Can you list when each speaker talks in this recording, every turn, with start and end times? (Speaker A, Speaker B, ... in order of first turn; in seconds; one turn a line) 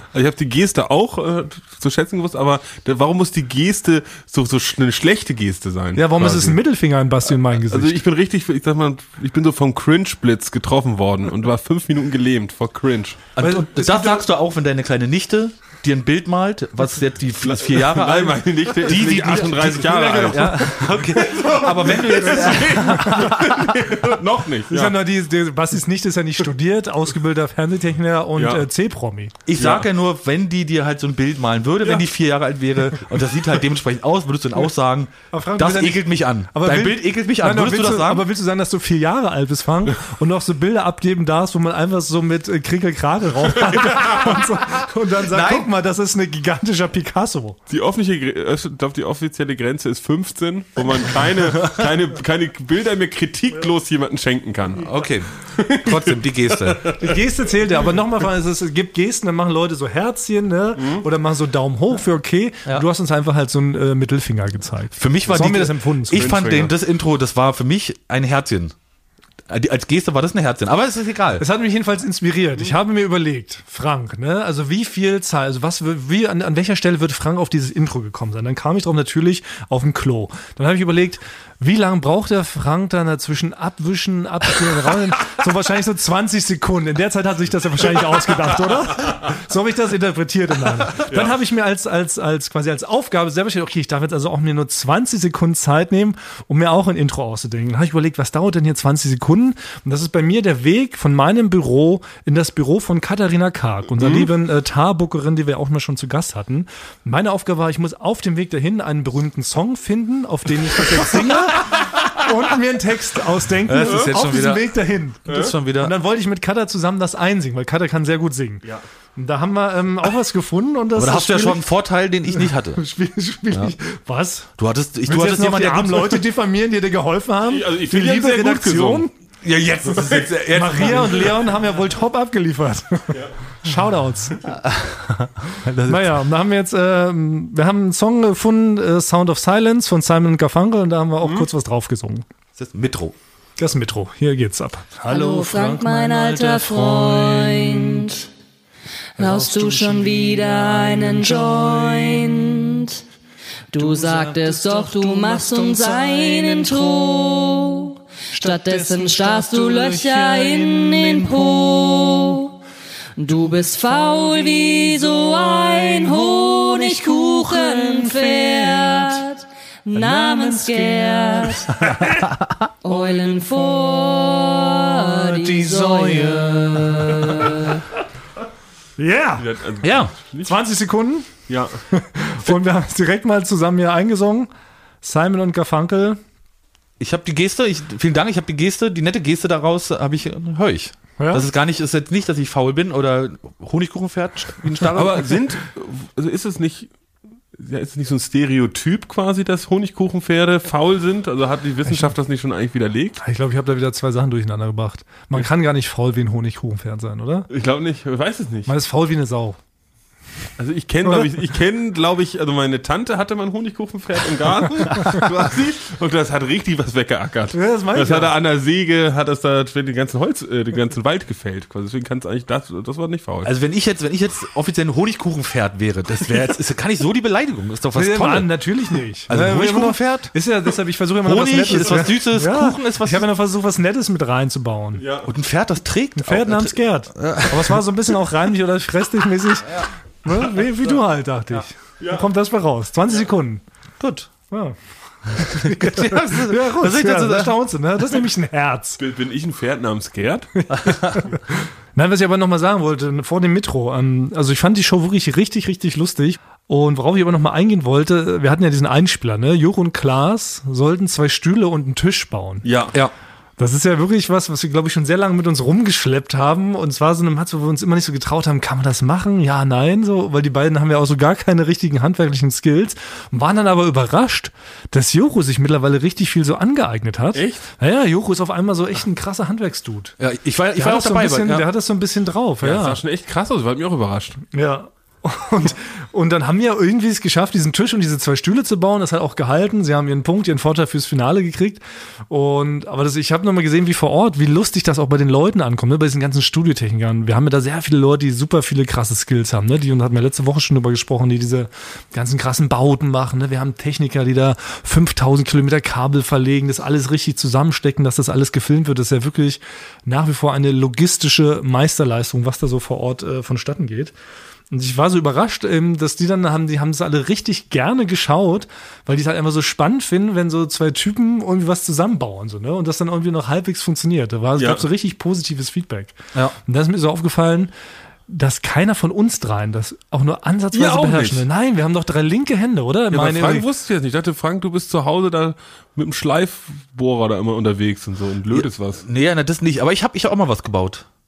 Speaker A: 0.1-6.6
Speaker B: 6.0-8.0
Speaker A: 7.4-13.2
Speaker C: 13.3-23.8
Speaker B: 13.4-14.2
Speaker A: 17.4-25.0
Speaker B: 19.9-21.0
Speaker B: 22.5-23.3
Speaker B: 24.7-29.3
Speaker A: 28.4-28.6
Speaker C: 29.4-38.3
Speaker A: 29.5-29.9
Speaker B: 35.3-47.6
Speaker A: 43.8-44.1
Speaker C: 45.2-45.7
Speaker A: 47.7-54.9
Speaker C: 54.8-56.9
Speaker A: 55.4-57.1
Speaker B: 57.0-66.3
Speaker A: 60.8-61.0
Speaker C: 64.9-68.7
Speaker A: 66.1-66.7
Speaker C: 69.5-71.4
Speaker B: 71.4-118.6
Speaker A: 104.0-104.3
Speaker C: 113.6-114.7
Speaker A: 113.8-114.1
Speaker C: 115.2-115.9
Speaker A: 115.3-115.5
Speaker B: 119.2-121.7
Speaker C: 120.9-122.8
Speaker B: 122.3-124.5
Speaker C: 124.6-126.2
Speaker B: 125.0-129.1
Speaker A: 127.5-129.1
Speaker C: 129.4-131.5
Speaker A: 129.9-131.3
Speaker B: 130.5-134.5
Speaker C: 134.6-136.0
Speaker B: 135.8-142.2
Speaker A: 141.2-141.5
Speaker C: 142.6-143.1
Speaker B: 143.6-148.1
Speaker D: 145.1-148.2
Speaker B: 149.2-152.6
Speaker D: 149.2-153.0
Speaker D: 153.7-162.6
Speaker B: 153.7-157.0
Speaker B: 158.3-161.6
Speaker D: 163.2-171.9
Speaker B: 167.4-169.0
Speaker B: 169.9-172.3
Speaker D: 172.8-177.8
Speaker B: 175.1-177.6
Speaker B: 179.0-181.3
Speaker A: 179.4-180.5
Speaker C: 179.8-180.1
Speaker A: 181.5-181.8
Speaker B: 181.9-184.5
Speaker B: 185.0-186.2
Speaker C: 187.0-195.3
Speaker B: 191.2-191.4
Speaker A: 194.8-196.9
Speaker A: 197.6-203.2
Speaker B: 201.8-202.1
Speaker B: 203.2-207.5
Speaker A: 207.5-208.7
Speaker B: 208.7-209.6
Speaker A: 210.6-223.5
Speaker B: 217.5-218.3
Speaker C: 223.4-228.5
Speaker B: 227.9-235.0
Speaker C: 229.3-230.3
Speaker C: 231.2-233.2
Speaker A: 235.0-235.3
Speaker C: 235.2-237.8
Speaker B: 236.2-243.6
Speaker A: 242.0-242.3
Speaker C: 244.0-244.3
Speaker B: 244.5-244.8
Speaker B: 245.3-249.0
Speaker C: 245.4-247.6
Speaker A: 249.0-250.5
Speaker B: 250.6-262.6
Speaker C: 250.8-251.2
Speaker A: 262.6-262.9
Speaker B: 263.6-280.1
Speaker A: 277.3-277.6
Speaker C: 280.2-281.6
Speaker B: 280.7-283.0
Speaker A: 282.6-284.4
Speaker B: 284.5-314.1
Speaker B: 314.7-327.7
Speaker A: 324.6-324.8
Speaker B: 328.3-333.6
Speaker A: 330.7-331.4
Speaker A: 333.1-339.0
Speaker C: 338.5-341.1